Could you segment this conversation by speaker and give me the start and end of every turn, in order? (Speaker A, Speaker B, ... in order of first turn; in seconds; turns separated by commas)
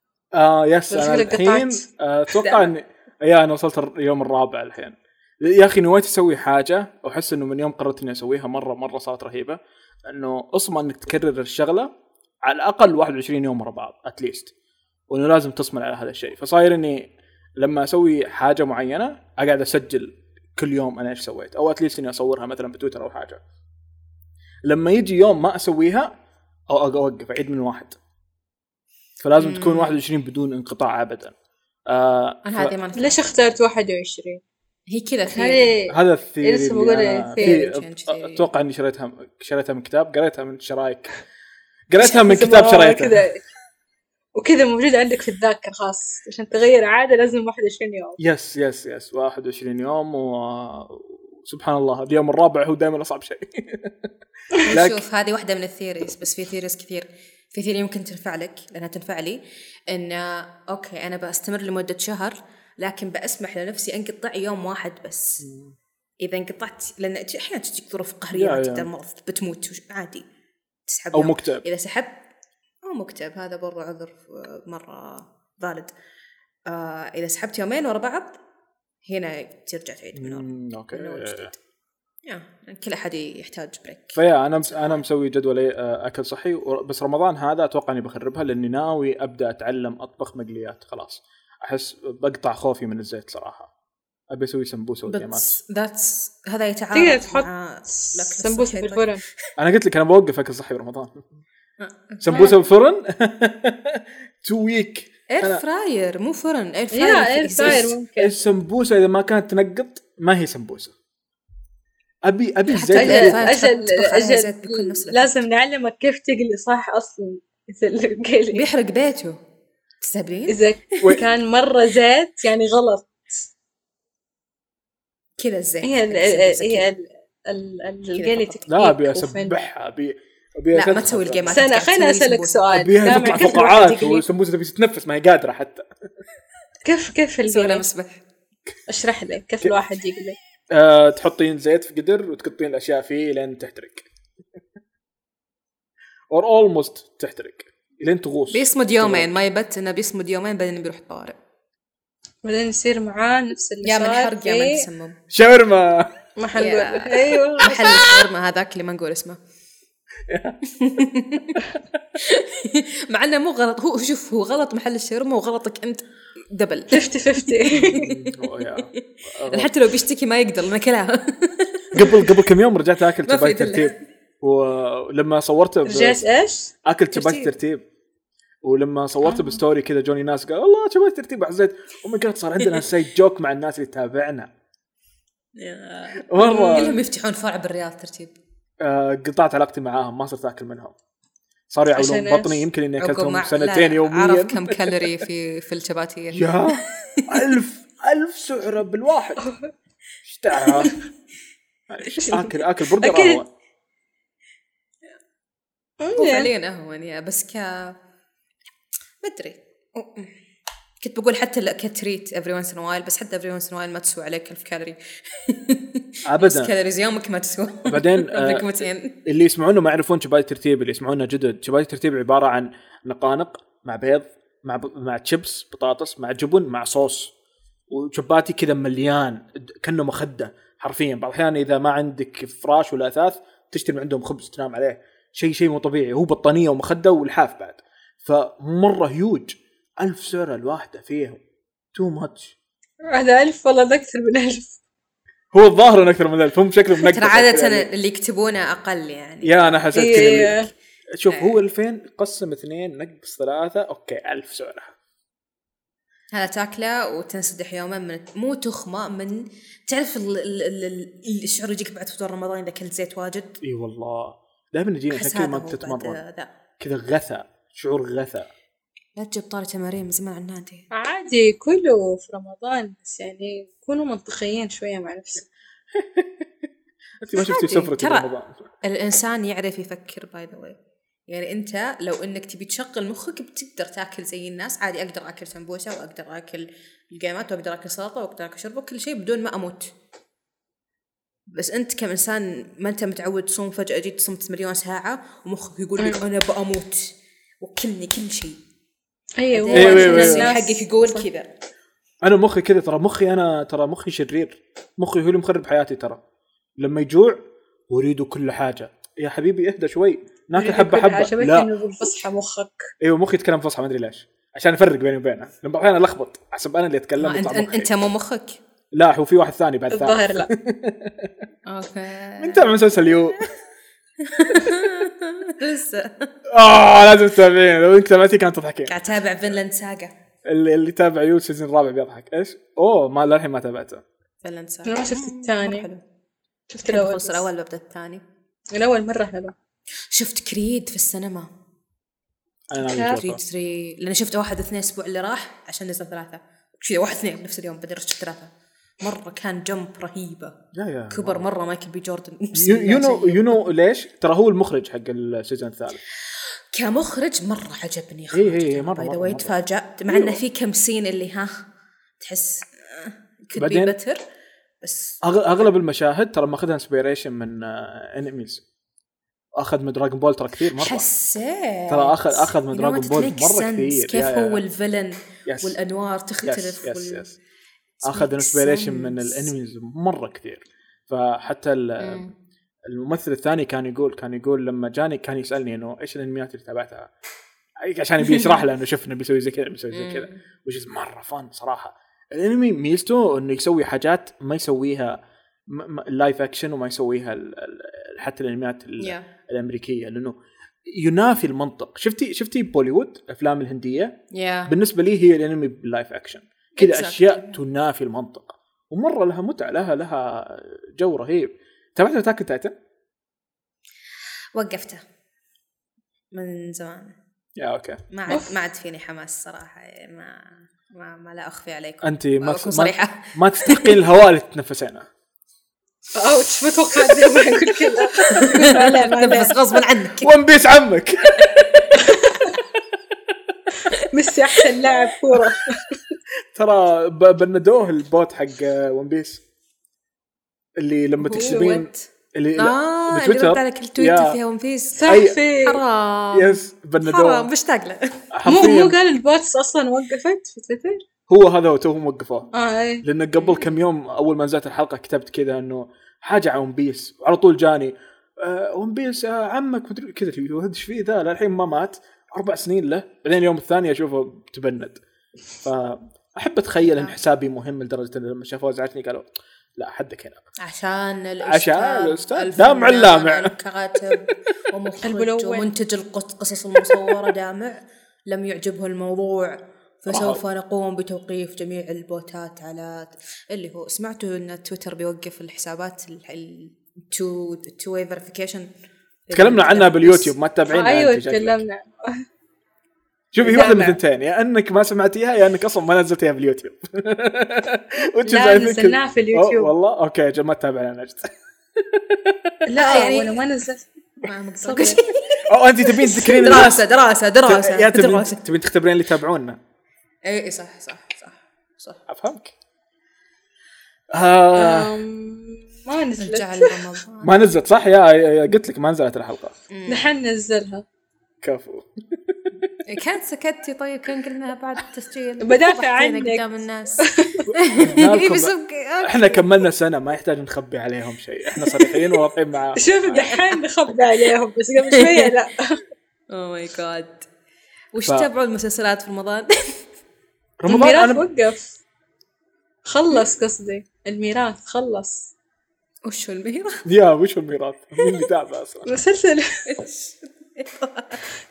Speaker A: 0.3-11.9, Speaker B: 0.9-1.8, Speaker C: 2.3-2.7, Speaker A: 12.4-14.5, Speaker A: 15.1-23.4, Speaker A: 24.6-26.2, Speaker A: 26.7-28.0, Speaker A: 29.2-31.3, Speaker C: 29.4-30.0, Speaker A: 31.9-32.7, Speaker C: 32.4-33.3, Speaker B: 33.0-34.4, Speaker C: 34.9-35.7, Speaker B: 35.3-37.6, Speaker A: 35.9-41.1, Speaker C: 37.4-38.5, Speaker A: 41.9-43.2, Speaker B: 42.0-43.4, Speaker B: 44.3-48.2, Speaker A: 48.2-54.1, Speaker C: 54.6-65.5, Speaker A: 54.7-55.0, Speaker A: 65.4-65.8, Speaker C: 66.2-70.2, Speaker A: 68.3-68.9, Speaker C: 70.9-72.2, Speaker A: 71.1-71.6, Speaker C: 72.8-75.9, Speaker C: 76.7-78.4, Speaker C: 79.0-81.6, Speaker A: 80.2-81.5, Speaker C: 82.2-84.2, Speaker A: 84.2-93.7, Speaker A: 94.3-95.6, Speaker C: 95.1-99.2, Speaker B: 96.9-97.5, Speaker B: 98.0-99.2, Speaker A: 99.6-101.3, Speaker C: 101.8-102.6, Speaker A: 102.2-105.6, Speaker B: 102.3-102.5, Speaker C: 105.3-108.0, Speaker B: 106.9-108.3, Speaker A: 107.6-110.9, Speaker A: 112.2-113.5, Speaker C: 112.7-115.4, Speaker B: 112.9-118.7, Speaker C: 118.5-119.4, Speaker C: 120.0-120.6, Speaker B: 120.5-123.3, Speaker C: 125.4-126.9, Speaker B: 125.8-129.6, Speaker C: 128.1-128.6, Speaker A: 128.7-131.6, Speaker C: 130.7-134.2, Speaker B: 131.5-134.2, Speaker A: 132.7-135.9, Speaker B: 136.8-137.8, Speaker C: 137.4-138.2, Speaker B: 138.9-140.4, Speaker A: 140.7-144.1, Speaker A: 146.3-149.3, Speaker C: 148.5-151.4, Speaker B: 152.4-154.8, Speaker C: 153.8-155.2, Speaker A: 155.3-156.1, Speaker B: 156.4-158.3, Speaker C: 156.5-159.4, Speaker A: 160.3-160.6, Speaker C: 160.7-161.6, Speaker C: 162.2-172.3, Speaker B: 166.9-168.1, Speaker A: 167.7-169.7, Speaker A: 171.9-176.2, Speaker C: 173.2-174.0, Speaker B: 175.8-177.4, Speaker A: 176.8-177.8, Speaker A: 178.6-184.5, Speaker C: 185.6-188.3, Speaker A: 186.3-187.0, Speaker A: 188.8-190.9, Speaker A: 191.7-195.1, Speaker B: 191.9-192.7, Speaker C: 193.0-197.5, Speaker A: 196.3-199.5, Speaker A: 200.2-200.9, Speaker A: 201.9-203.5, Speaker B: 202.2-203.4, Speaker B: 206.0-206.5, Speaker C: 206.1-208.0, Speaker C: 209.2-210.3, Speaker C: 211.0-219.2, Speaker A: 216.3-216.7, Speaker A: 217.8-218.7, Speaker A: 219.2-227.3, Speaker A: 227.9-241.4, Speaker A: 241.9-242.6, Speaker B: 243.0-244.8, Speaker A: 245.5-247.9, Speaker C: 247.0-250.5, Speaker A: 249.4-250.6, Speaker B: 249.9-250.7, Speaker A: 251.1-254.9, Speaker C: 251.3-251.6, Speaker C: 256.3-263.6, Speaker A: 263.6-266.2, Speaker C: 265.1-266.5, Speaker A: 266.8-268.5, Speaker C: 269.1-270.9, Speaker B: 270.9-275.4, Speaker A: 275.9-276.5, Speaker A: 277.2-278.7, Speaker C: 277.4-278.3, Speaker C: 278.8-280.8, Speaker C: 281.3-289.9, Speaker C: 291.5-298.6, Speaker B: 299.4-301.2, Speaker C: 299.5-301.5, Speaker A: 299.7-300.5, Speaker A: 302.2-306.2, Speaker A: 306.8-311.7, Speaker B: 310.6-312.9, Speaker A: 313.0-317.9, Speaker C: 317.2-318.6, Speaker A: 318.9-321.3, Speaker B: 319.9-320.5, Speaker C: 321.6-323.5, Speaker A: 322.4-323.4, Speaker C: 324.2-326.3, Speaker A: 326.5-328.9, Speaker C: 328.9-330.1, Speaker A: 330.4-334.0, Speaker C: 334.4-336.0, Speaker B: 334.9-335.9, Speaker B: 336.7-337.4, Speaker C: 336.8-338.2, Speaker B: 338.7-339.5, Speaker C: 340.1-341.5, Speaker A: 342.7-343.4, Speaker C: 342.8-353.6, Speaker A: 350.7-351.5, Speaker A: 352.5-356.0, Speaker C: 356.7-361.6, Speaker A: 358.3-359.5, Speaker A: 360.1-360.4, Speaker C: 362.2-364.2, Speaker A: 363.6-363.9, Speaker C: 364.8-365.2, Speaker A: 365.2-368.6, Speaker A: 369.6-371.1, Speaker C: 370.8-377.3, Speaker A: 371.9-374.6, Speaker A: 375.4-375.8, Speaker A: 376.4-377.4, Speaker C: 378.0-379.5, Speaker A: 378.0-382.2, Speaker C: 382.0-382.3, Speaker A: 382.9-387.1, Speaker A: 387.8-412.7, Speaker C: 389.9-390.4, Speaker C: 399.0-399.3, Speaker C: 404.3-404.7, Speaker C: 406.8-407.6, Speaker C: 414.5-415.0, Speaker C: 416.3-417.1, Speaker A: 417.6-418.0, Speaker C: 418.1-424.0, Speaker A: 422.0-425.1, Speaker B: 426.1-429.8, Speaker C: 428.1-430.3, Speaker A: 430.2-432.1, Speaker C: 431.4-432.5, Speaker B: 432.1-432.4, Speaker B: 433.9-436.1, Speaker A: 436.5-439.4, Speaker A: 440.8-444.4, Speaker C: 441.2-448.3, Speaker B: 441.4-441.8, Speaker B: 445.0-445.8, Speaker A: 445.1-445.4, Speaker A: 446.3-447.5, Speaker A: 448.3-449.0, Speaker B: 448.4-451.0, Speaker A: 451.3-452.5, Speaker B: 452.5-453.1, Speaker A: 453.0-465.0, Speaker A: 465.6-470.4, Speaker C: 466.9-467.1, Speaker C: 470.6-488.7, Speaker A: 471.4-473.5, Speaker B: 475.0-475.7, Speaker A: 480.1-480.4, Speaker C: 489.3-490.3, Speaker A: 489.3-491.6, Speaker B: 490.7-492.2, Speaker A: 493.3-502.6, Speaker B: 493.4-494.0, Speaker B: 498.2-499.7, Speaker B: 502.6-503.9, Speaker C: 502.7-503.3, Speaker C: 504.2-508.4, Speaker B: 504.6-505.0, Speaker A: 505.4-506.9, Speaker A: 507.4-509.6, Speaker C: 510.2-512.0, Speaker A: 512.1-512.5, Speaker A: 514.1-514.9, Speaker B: 514.5-516.9, Speaker C: 516.2-517.3, Speaker A: 517.2-519.5, Speaker C: 519.7-520.1, Speaker B: 519.9-520.8, Speaker A: 521.4-522.7, Speaker C: 522.8-529.4, Speaker B: 525.4-527.5, Speaker A: 527.5-533.3, Speaker B: 532.8-535.8, Speaker C: 533.1-533.5, Speaker C: 534.9-535.3, Speaker C: 536.3-537.3, Speaker C: 537.9-539.8, Speaker A: 540.6-541.2, Speaker B: 540.7-541.8, Speaker B: 542.9-545.3, Speaker C: 546.0-546.9, Speaker A: 546.8-548.9, Speaker B: 548.8-549.6, Speaker C: 549.6-551.2